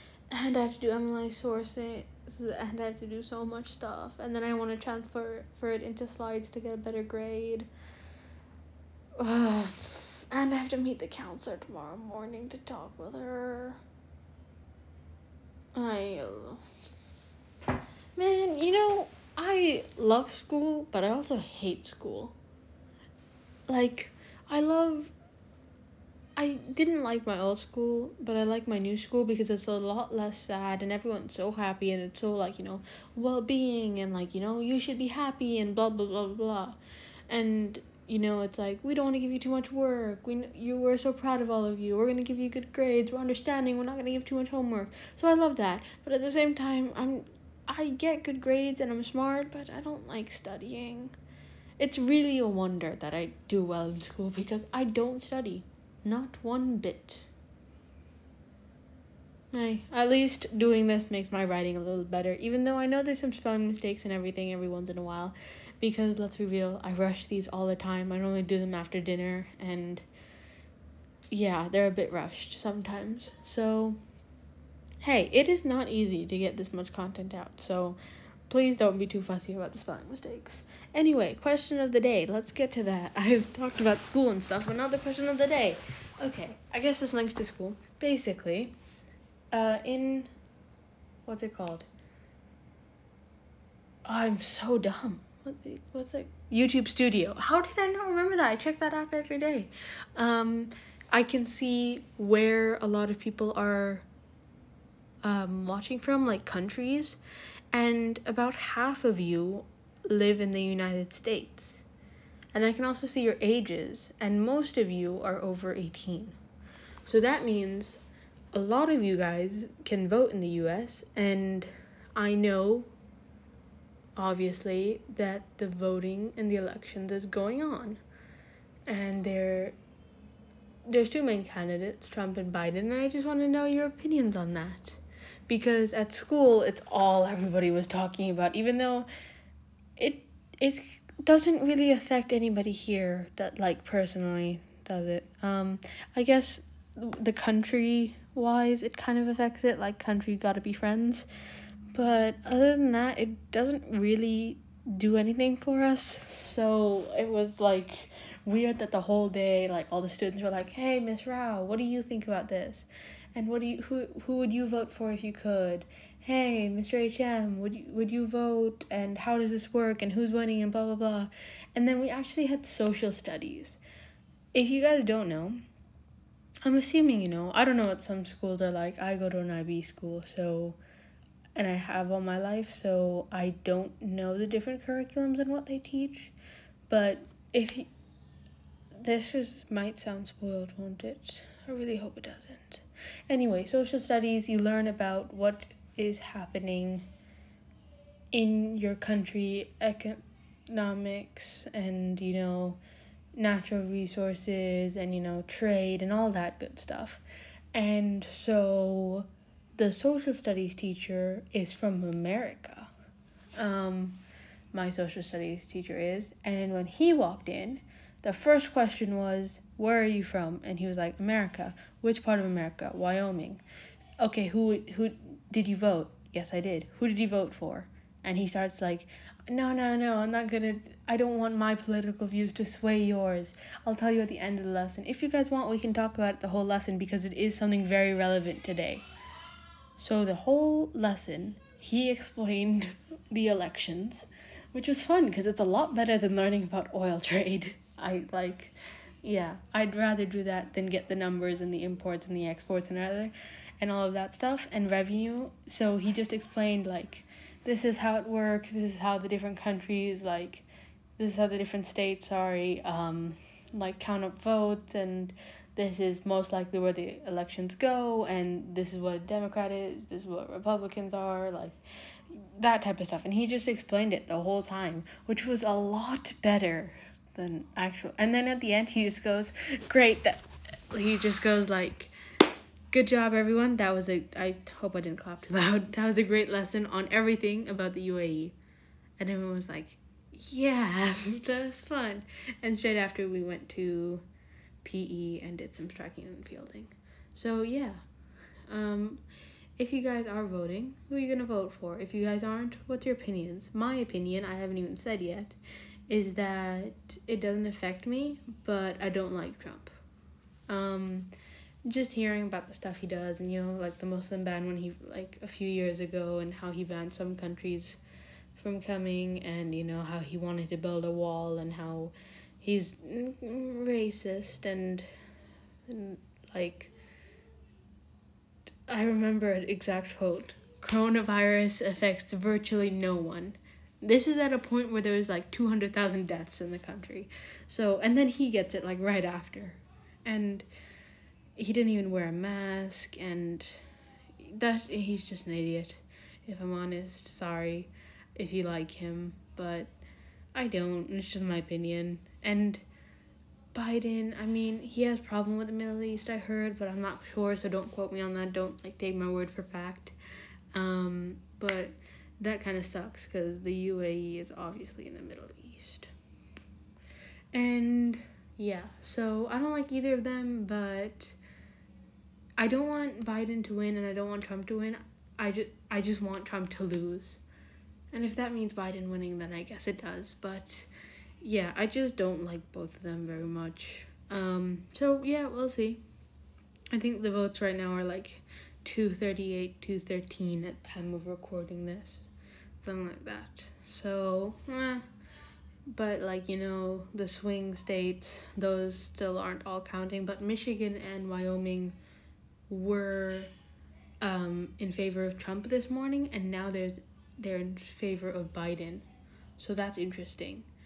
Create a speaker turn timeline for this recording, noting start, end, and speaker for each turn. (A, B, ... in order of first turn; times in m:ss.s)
0:00.3-0:07.7 A
0:09.2-0:13.8 A
0:15.8-0:16.6 A
0:18.2-0:22.4 A
0:23.7-0:25.1 A
0:26.4-0:36.8 A
0:37.3-0:51.1 A
0:51.8-0:57.3 A
0:59.5-1:10.0 A
1:11.3-1:14.0 A
1:15.0-1:18.0 A
1:18.5-1:28.7 A
1:29.5-1:30.3 A
1:31.3-1:31.9 A
1:34.0-1:44.1 A
1:45.2-1:47.2 A
1:47.7-1:51.9 A
1:52.5-1:56.4 A
1:57.0-2:02.9 A
2:04.2-2:08.0 A
2:08.9-2:09.8 A
2:10.9-2:19.1 A
2:20.0-2:31.3 A
2:31.9-2:53.8 A
2:54.5-2:55.6 A
2:56.6-3:00.8 A
3:01.6-3:06.3 A
3:06.9-3:07.9 A
3:09.0-3:17.1 A
3:18.3-3:22.8 A
3:23.4-3:27.2 A
3:27.7-3:32.9 A
3:33.6-3:34.2 A
3:34.7-3:43.6 A
3:44.2-3:59.0 A
4:00.0-4:20.6 A
4:21.2-4:31.8 A
4:32.3-4:42.1 A
4:42.9-4:48.6 A
4:49.2-4:54.2 A
4:54.8-4:58.0 A
4:58.7-4:59.2 A
4:59.8-5:05.6 A
5:06.1-5:09.9 A
5:10.7-5:11.3 A
5:11.9-5:18.0 A
5:18.6-5:25.1 A
5:25.9-5:26.9 A
5:28.9-5:40.7 A
5:41.6-5:43.8 A
5:44.4-5:49.9 A
5:50.6-5:52.8 A
5:53.7-6:00.2 A
6:00.7-6:06.1 A
6:07.5-6:11.4 A
6:12.6-6:17.4 A
6:18.1-6:20.9 A
6:21.4-6:26.0 A
6:26.9-6:32.2 A
6:32.8-6:35.0 A
6:35.9-6:42.0 A
6:42.7-6:43.5 A
6:44.2-6:49.0 A
6:49.6-6:50.7 A